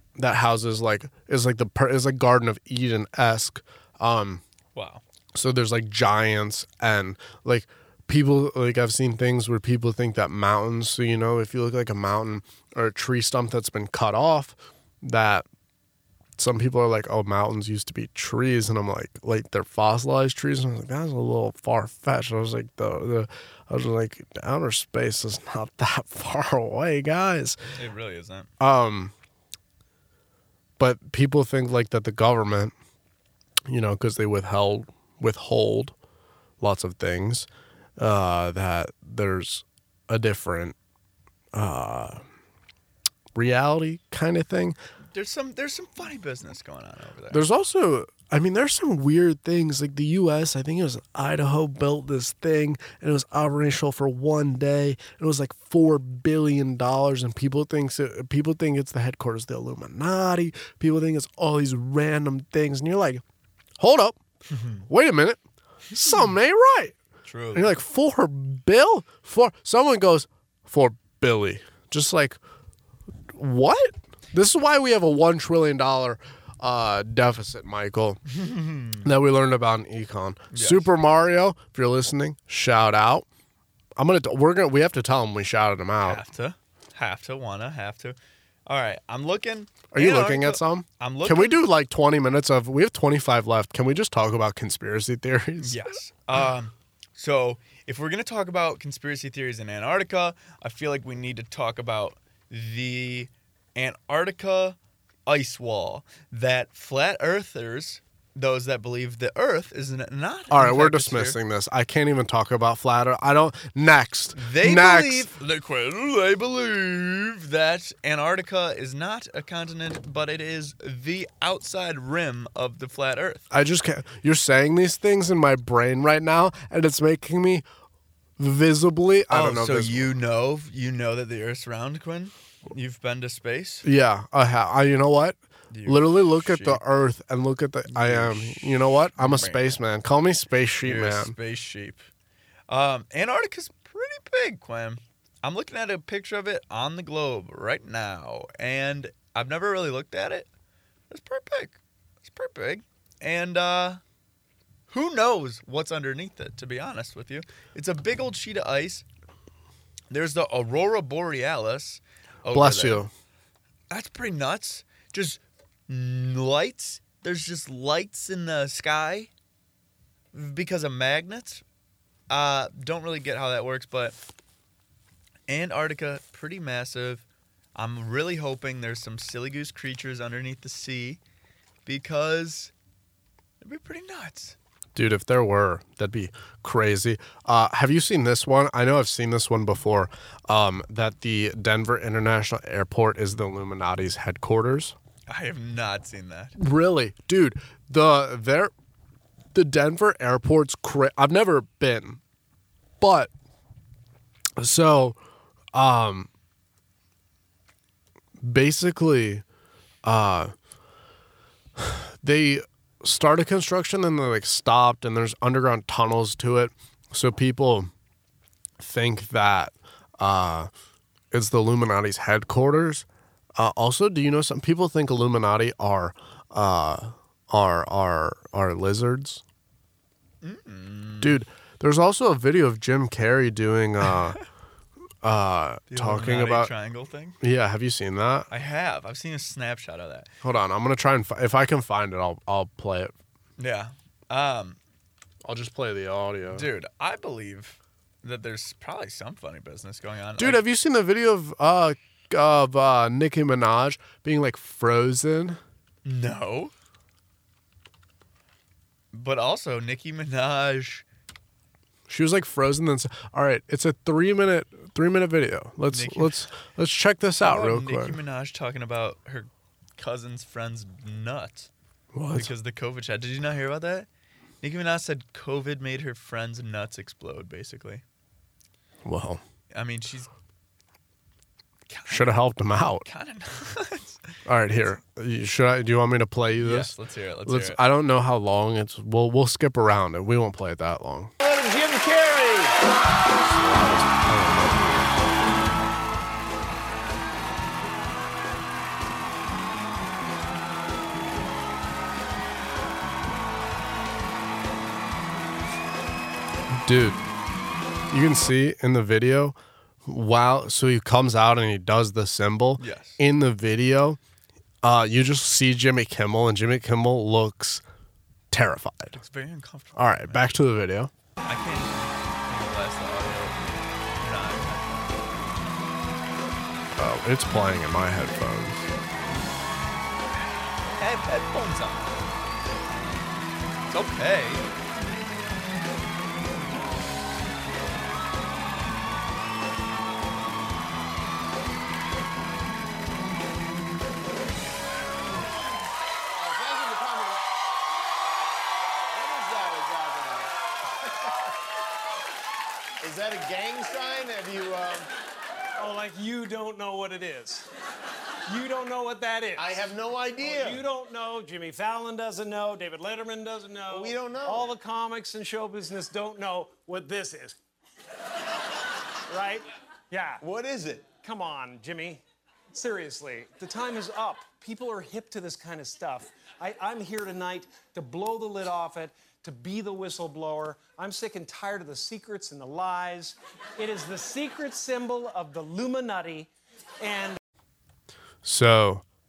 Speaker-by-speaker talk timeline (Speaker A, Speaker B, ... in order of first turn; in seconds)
Speaker A: 0.1-4.4, 5.3-15.4, 16.4-27.6, 28.6-29.1, 30.8-32.7, 33.7-35.9, 36.6-37.5, 38.0-40.7, 41.5-42.2, 43.3-44.8, 47.3-63.2, 63.8-64.2, 64.9-65.4, 65.9-67.0, 67.5-72.4, 73.3-78.2, 79.0-83.2, 84.0-86.2, 89.9-96.0, 110.5-115.3, 123.5-127.6, 128.4-130.1, 133.8-141.3, 162.5-163.1, 184.9-194.9, 196.6-198.7, 199.5-202.2, 203.0-203.3, 204.6-205.2, 205.7-206.3, 208.4-209.4, 210.0-210.5, 211.8-217.9, 218.8-220.7, 221.3-223.0, 223.6-229.4, 231.2-234.4, 235.2-236.7, 237.4-238.5, 240.4-243.1, 245.4-246.7, 250.4-255.6, 262.1-268.2, 272.1-272.5, 279.0-279.4, 282.1-283.1, 284.4-291.3, 293.4-295.3, 306.7-307.2, 308.1-314.2, 314.8-317.8, 318.5-319.2, 319.9-321.1, 327.0-328.9, 388.4-389.0
Speaker B: 4.7-5.0, 27.7-28.5, 45.1-47.4, 64.5-64.8, 67.2-67.7, 78.3-79.1, 80.5-80.9, 86.0-91.6, 95.6-111.4, 114.3-123.4, 129.3-133.8, 135.7-136.8, 137.8-139.8, 140.8-142.0, 142.7-150.5, 151.1-154.0, 154.9-159.1, 160.1-163.0, 163.9-169.3, 170.3-171.6, 172.3-174.2, 175.5-181.2, 181.8-182.7, 183.6-184.5, 195.3-196.6, 230.4-231.4, 234.1-234.4, 235.9-237.4, 238.5-240.3, 243.6-244.8, 246.5-250.6, 256.0-256.7, 259.1-261.0, 265.9-266.5, 267.4-271.7, 272.3-274.1, 274.6-278.0, 279.7-280.3, 281.9-282.3, 283.0-284.3, 286.6-287.8, 312.8-313.2, 319.1-320.6, 321.4-325.5, 330.8-332.2, 333.9-334.6
Speaker C: 291.4-292.8, 346.4-347.4, 349.1-350.5, 353.0-355.1, 359.6-360.8, 363.9-364.7, 370.4-371.1
Speaker D: 355.8-357.7, 358.5-359.8, 360.4-367.6, 369.3-370.4, 371.2-387.4